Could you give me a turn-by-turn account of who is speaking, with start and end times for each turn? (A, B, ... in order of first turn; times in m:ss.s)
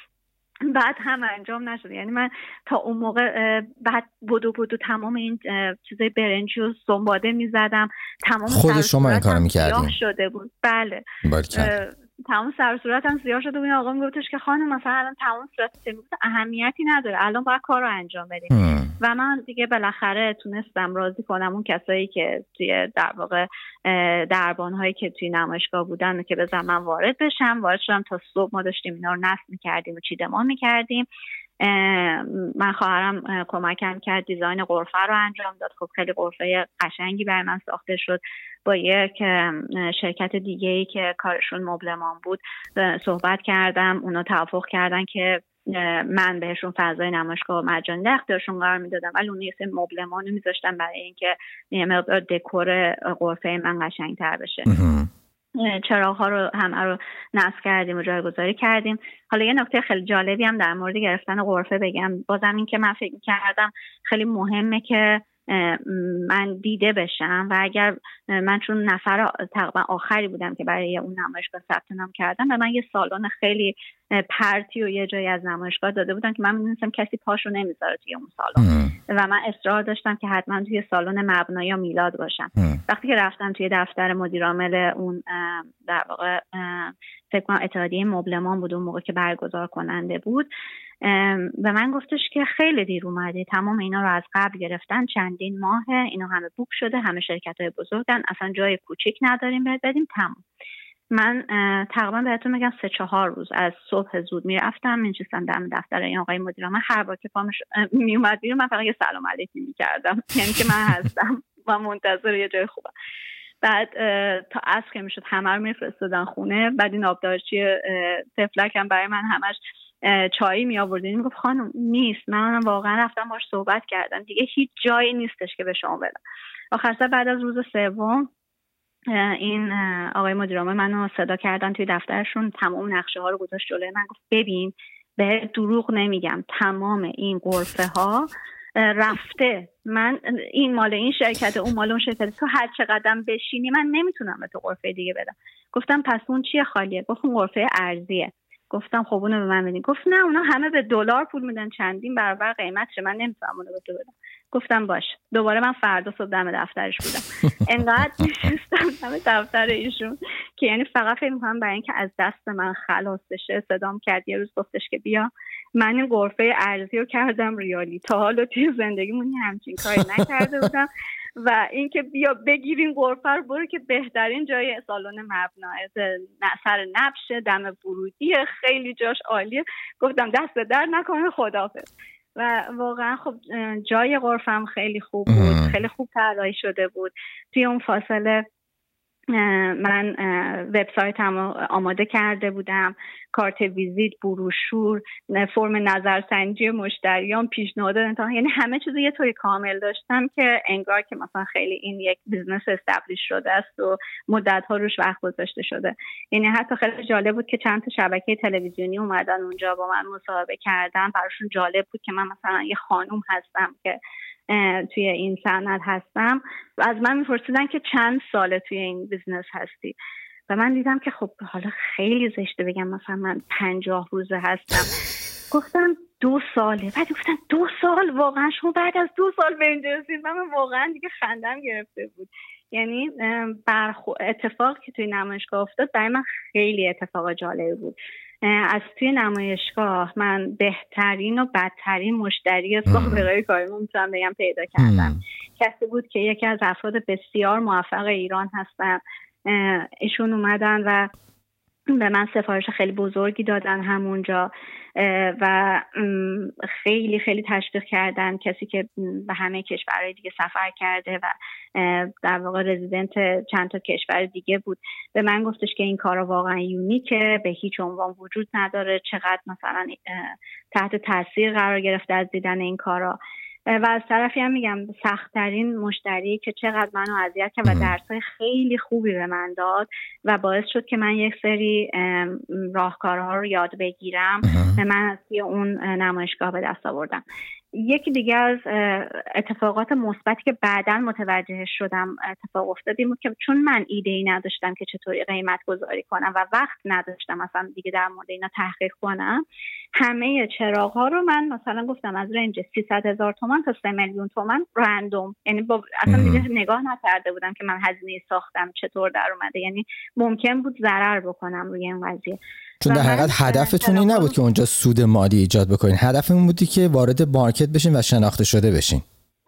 0:00.6-0:31.1 A
0:08.5-0:09.9 B
0:11.2-0:11.7 B
0:18.5-0:18.9 B
0:31.6-0:54.7 A
0:54.6-0:55.1 B
0:55.5-1:30.5 A
1:18.6-1:18.9 B
1:31.0-1:40.4 A
1:41.1-1:52.9 A
1:53.6-2:06.2 A
2:06.7-2:08.3 A
2:09.1-3:08.4 A
2:50.0-2:50.2 B
3:05.3-3:05.8 B
3:09.3-3:40.0 A
3:40.5-3:44.9 A
3:45.5-4:11.1 A
4:02.9-4:03.2 B
4:04.8-4:05.2 B
4:11.9-4:47.2 A
4:44.4-4:44.8 B
4:47.7-4:59.4 A
5:00.0-5:14.3 A
5:06.1-5:06.4 B
5:12.8-5:19.0 B